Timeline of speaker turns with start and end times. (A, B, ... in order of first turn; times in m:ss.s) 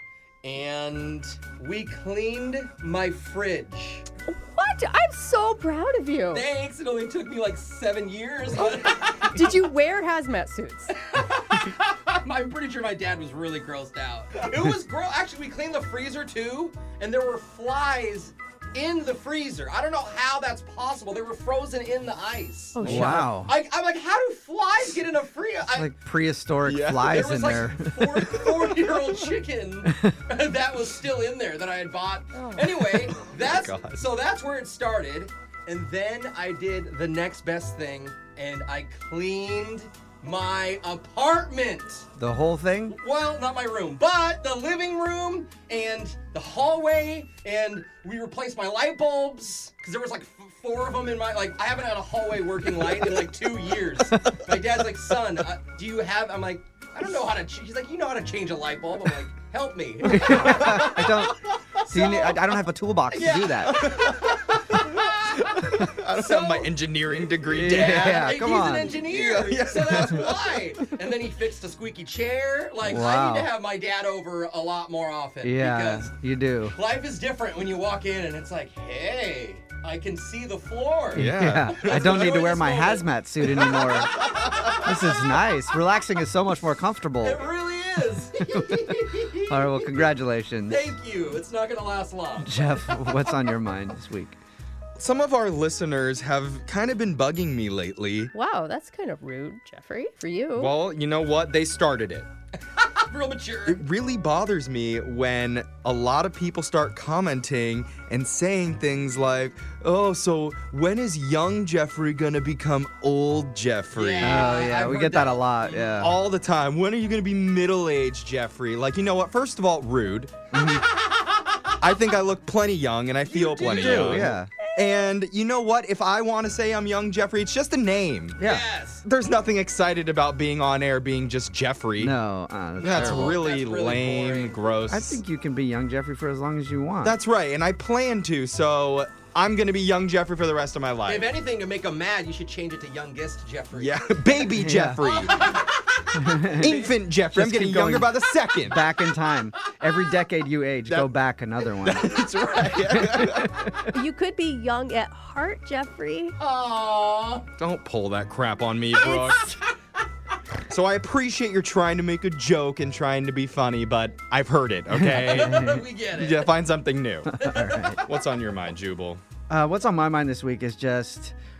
0:00.4-0:04.0 A
0:04.3-0:06.4 B
0:06.3-0:09.4 A
0:09.3-0:11.0 B
0:11.1-0:25.9 A
0:22.7-0:23.3 B
0:22.8-0:23.5 C
0:25.7-0:28.2 C
0:26.6-0:27.2 D
0:27.0-0:42.1 A
0:32.3-0:32.7 B
0:33.3-0:34.1 D
0:42.2-0:43.0 C
0:42.9-1:02.6 A
1:00.0-1:03.9 C
1:03.1-1:06.7 A
1:03.7-1:04.4 D
1:05.3-1:08.3 D
1:07.4-1:09.0 C
1:07.6-1:24.8 A
1:08.9-1:10.7 D
1:12.8-1:13.5 C
1:15.4-1:16.8 C
1:21.1-1:22.3 D
1:21.1-1:27.4 C
1:24.2-1:24.4 D
1:27.2-1:30.1 A
1:28.5-1:30.8 C
1:30.7-1:32.9 A
1:32.4-1:34.4 C
1:35.0-1:38.3 D
1:38.3-1:40.7 B
1:40.6-1:42.3 D
1:42.7-1:43.8 A
1:43.6-1:54.6 D
1:53.9-1:56.0 A
1:54.2-1:56.1 C
1:56.0-2:00.3 D
2:00.5-2:00.9 C
2:01.8-2:08.4 D
2:03.3-2:04.4 A
2:03.6-2:04.5 C
2:08.4-2:08.6 C
2:08.4-2:09.0 A
2:09.0-2:12.1 D
2:12.0-2:13.4 C
2:12.8-2:14.8 A
2:12.8-2:15.2 D
2:14.9-2:17.2 C
2:17.0-2:21.3 D
2:21.0-2:27.0 A
2:23.7-2:25.4 D
2:24.6-2:25.0 C
2:26.1-2:32.2 C
2:26.6-2:28.8 D
2:30.9-2:31.1 D
2:31.8-2:33.7 D
2:32.9-2:33.9 C
2:33.9-2:36.4 B
2:36.4-2:37.4 A
2:37.6-2:39.6 D
2:39.0-2:39.6 A
2:40.7-2:47.4 D
2:44.9-2:45.8 C
2:45.0-2:46.6 A
2:47.3-2:48.0 C
2:47.4-2:48.0 A
2:48.0-2:49.2 D
2:49.5-2:51.4 C